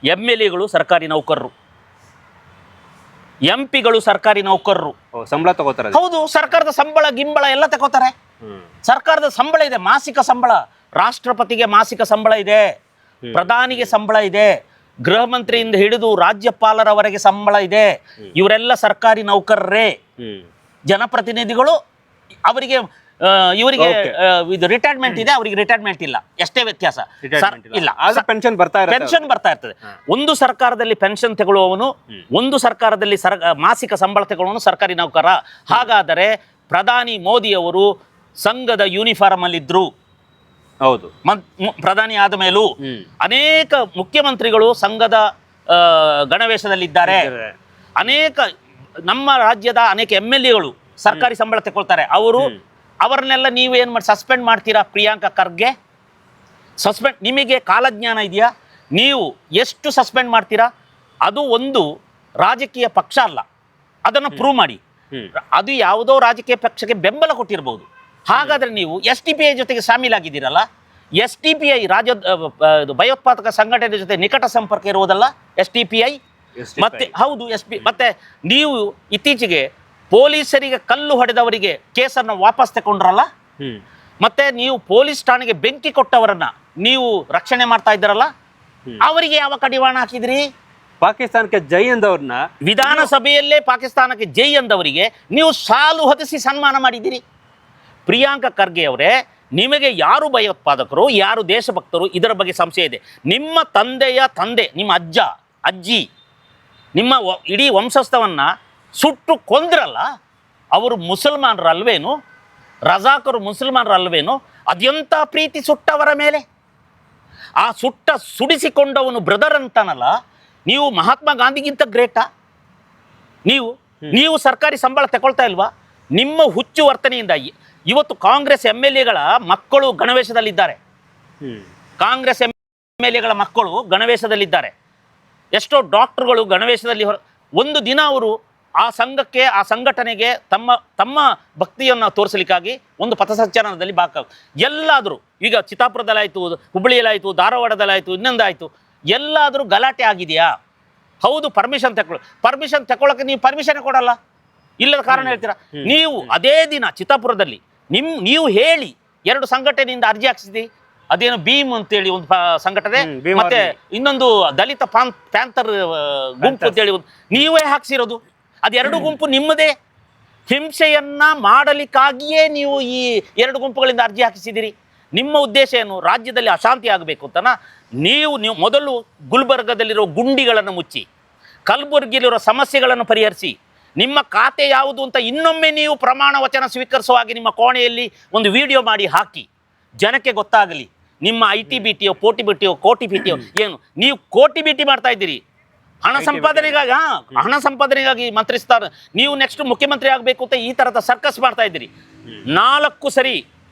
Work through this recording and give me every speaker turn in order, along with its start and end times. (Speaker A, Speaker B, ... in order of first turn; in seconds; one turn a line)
Speaker A: 0.1-1.5
Speaker A: 3.5-4.9
Speaker B: 5.2-6.0
Speaker A: 5.9-8.1
Speaker A: 8.9-12.6
Speaker B: 13.2-13.9
Speaker A: 13.3-19.9
Speaker B: 20.2-20.5
Speaker A: 20.9-21.8
Speaker A: 22.5-28.3
Speaker B: 23.8-24.2
Speaker B: 27.2-29.2
Speaker A: 28.9-37.9
Speaker A: 38.4-39.9
Speaker B: 40.9-41.1
Speaker A: 41.2-42.7
Speaker A: 43.2-47.3
Speaker B: 47.0-47.5
Speaker A: 48.0-48.5
Speaker A: 49.1-52.5
Speaker A: 53.0-55.7
Speaker A: 56.8-60.7
Speaker A: 61.2-61.9
Speaker A: 62.4-63.4
Speaker A: 64.1-64.8
Speaker A: 65.4-70.7
Speaker B: 68.4-68.6
Speaker A: 71.2-76.2
Speaker B: 76.6-77.1
Speaker A: 76.8-83.3
Speaker A: 84.2-88.3
Speaker A: 89.0-90.4
Speaker B: 91.0-93.1
Speaker A: 92.6-97.2
Speaker A: 98.1-106.0
Speaker A: 107.0-108.5
Speaker A: 109.0-110.1
Speaker A: 110.7-112.1
Speaker A: 112.9-116.4
Speaker A: 117.6-120.1
Speaker A: 120.7-122.2
Speaker A: 123.5-130.8
Speaker A: 132.0-134.7
Speaker A: 135.6-150.5
Speaker A: 151.2-154.2
Speaker A: 154.8-169.7
Speaker B: 155.1-156.3
Speaker B: 163.0-163.7
Speaker B: 166.4-166.8
Speaker B: 168.8-169.1
Speaker A: 170.5-181.1
Speaker A: 181.7-189.5
Speaker A: 190.0-195.4
Speaker A: 196.0-201.9
Speaker B: 196.2-196.8
Speaker A: 202.5-203.4